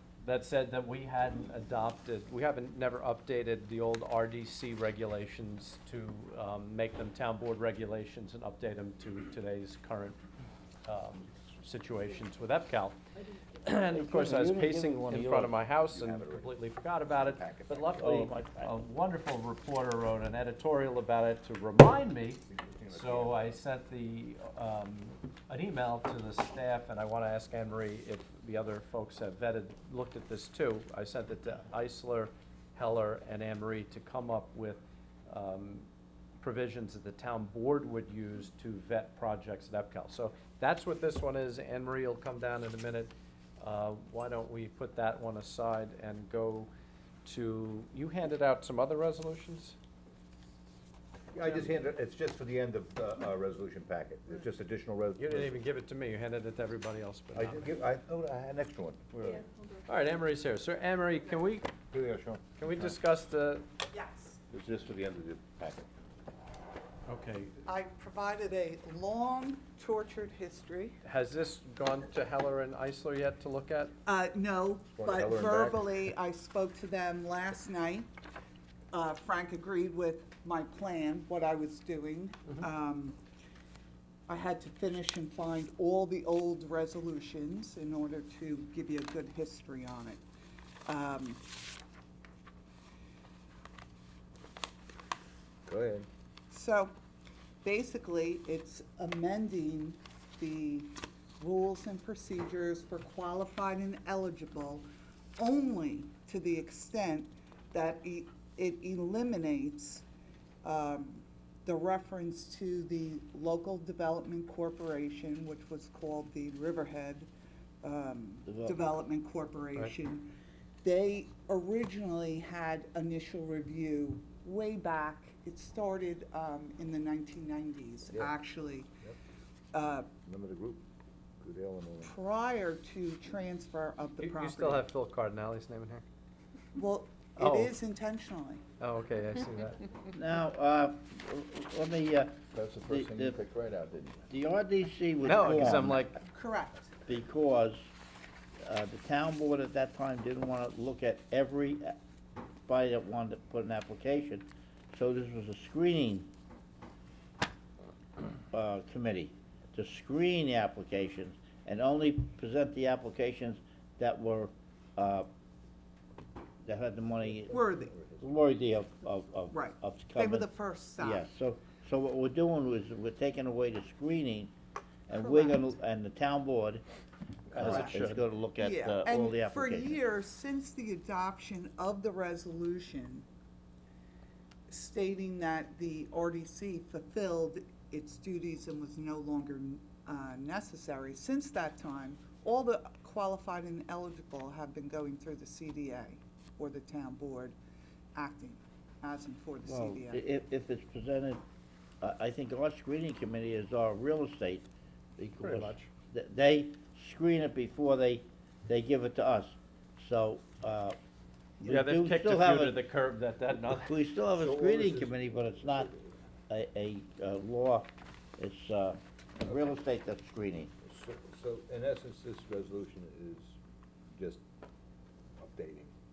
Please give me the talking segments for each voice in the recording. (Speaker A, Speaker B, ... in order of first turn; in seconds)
Speaker A: 0.2-10.2, 10.8-13.0, 13.6-35.9, 36.4-46.7, 47.2-49.8, 55.2-57.7, 59.1-61.7, 62.6-63.6, 67.1-67.5, 71.0-73.9, 134.2-136.0, 137.4-137.7, 138.8-139.8, 145.2-146.2, 177.5-178.2, 205.4-205.9, 211.6-213.9
Speaker B: 13.9-15.5, 18.0-18.8, 118.5-118.9, 140.1-143.4, 144.3-146.0, 147.1-147.8, 148.6-152.0, 152.7-156.3, 158.5-165.3, 166.6-167.6, 168.2-174.5, 175.1-176.8, 177.5-180.0, 199.7-201.4, 202.0-204.7, 205.2-211.0, 211.6-212.8, 213.5-215.9, 216.5-220.7
Speaker C: 15.8-16.6, 17.1-18.3, 22.5-23.6, 51.3-55.6, 57.3-59.2, 61.9-62.9, 64.5-65.9, 74.9-76.0, 95.7-96.1, 130.2-130.8, 131.4-132.1, 142.5-144.3, 167.2-168.3, 214.3-216.1, 220.8-223.6, 224.1-224.4, 225.4-225.9
Speaker D: 63.9-64.4, 67.7-71.0, 74.0-78.1, 78.9-83.2, 84.3-90.2, 90.8-91.4, 96.5-96.9, 97.6-110.0, 110.6-117.3, 117.8-128.9, 129.7-130.1, 132.0-134.9, 136.8-138.6, 146.2-146.9, 167.5-167.9, 169.5-171.3, 175.1-175.7, 177.6-178.0, 178.6-183.2, 184.7-197.6, 198.1-200.2